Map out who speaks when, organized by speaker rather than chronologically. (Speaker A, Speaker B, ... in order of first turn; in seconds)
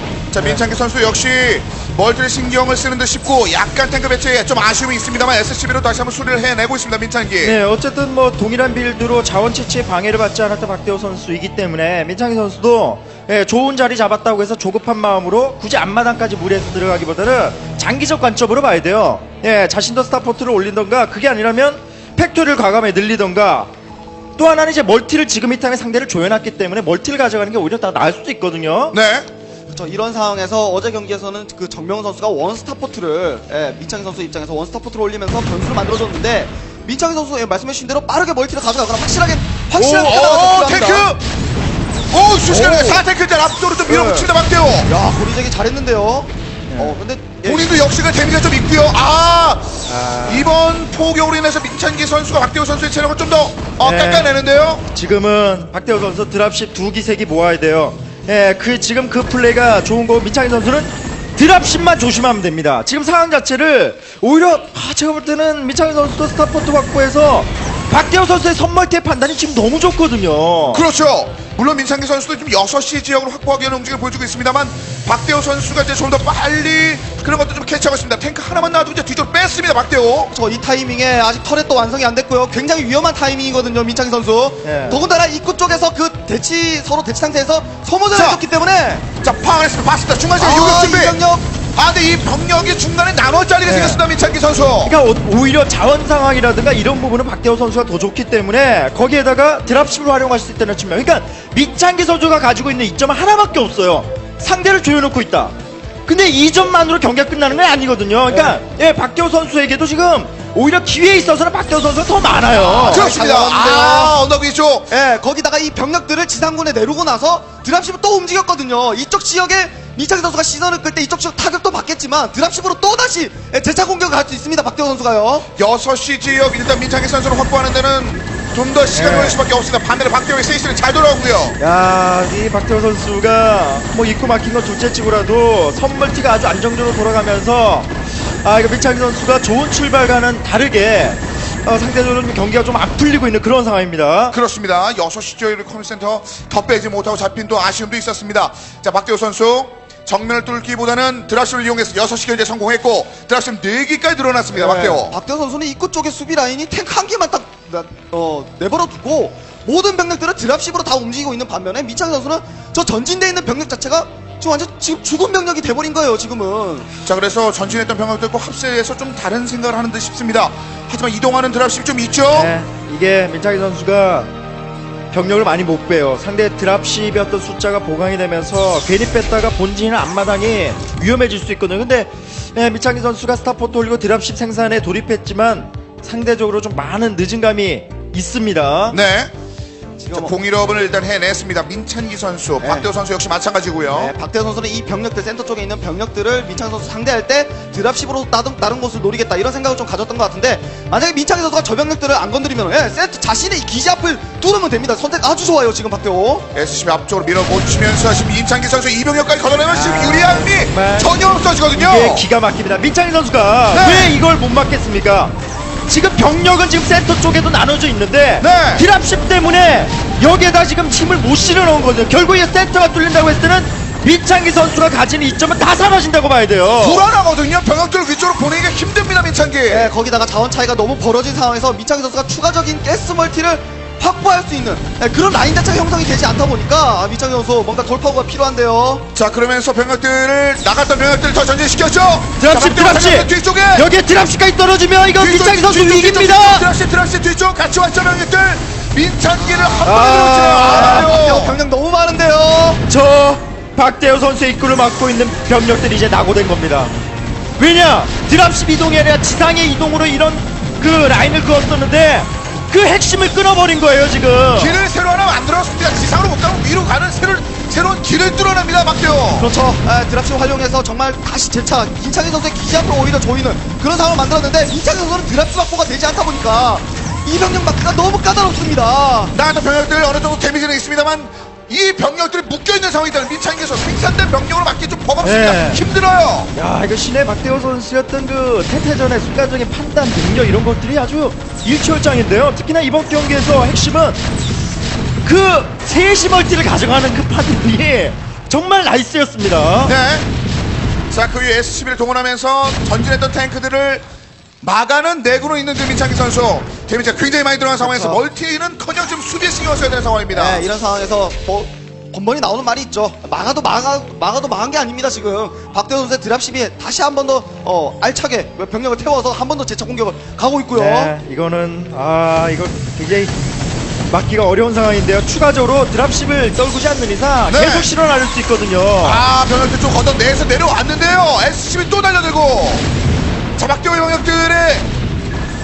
Speaker A: 0.3-7.6, 28.9-29.3, 39.7-41.2, 42.1-44.9, 47.4-54.9, 70.7-80.3, 88.1-88.4, 89.2-91.2, 91.7-95.0, 112.8-114.9, 125.5-131.6, 144.3-155.2, 167.1-172.5, 188.9-189.3, 190.1-194.1, 206.5-212.3, 213.7-214.2, 218.4-218.8, 226.8-229.9, 239.1-243.9, 245.2-251.6, 264.6-269.5, 279.3-286.5, 299.8-300.3, 301.1-304.1, 304.6-310.6, 327.5-327.9, 329.0-332.9, 333.6-334.9
Speaker B: 7.4-23.7, 24.4-29.0, 46.7-47.0, 49.9-50.5, 53.8-54.3, 54.9-70.8, 84.6-85.0, 93.7-94.0, 94.8-105.6, 106.1-113.1, 128.9-129.4, 131.6-144.4, 172.3-174.3, 175.1-189.0, 209.7-211.2, 211.7-215.4, 215.9-227.1, 242.4-246.7, 249.8-251.1, 252.9-256.9, 257.6-264.8, 285.2-285.8, 286.5-294.2, 295.2-299.9, 320.7-323.4, 324.1-329.2
Speaker C: 29.7-41.1, 42.5-43.0, 43.9-44.3, 44.9-47.8, 80.3-89.1, 90.4-91.5, 108.3-108.6, 112.5-114.2, 114.9-125.5, 154.5-166.9, 190.0-190.3, 192.6-192.9, 193.9-206.5, 229.7-239.1, 249.4-252.8, 269.4-279.4, 307.8-308.2, 310.3-321.1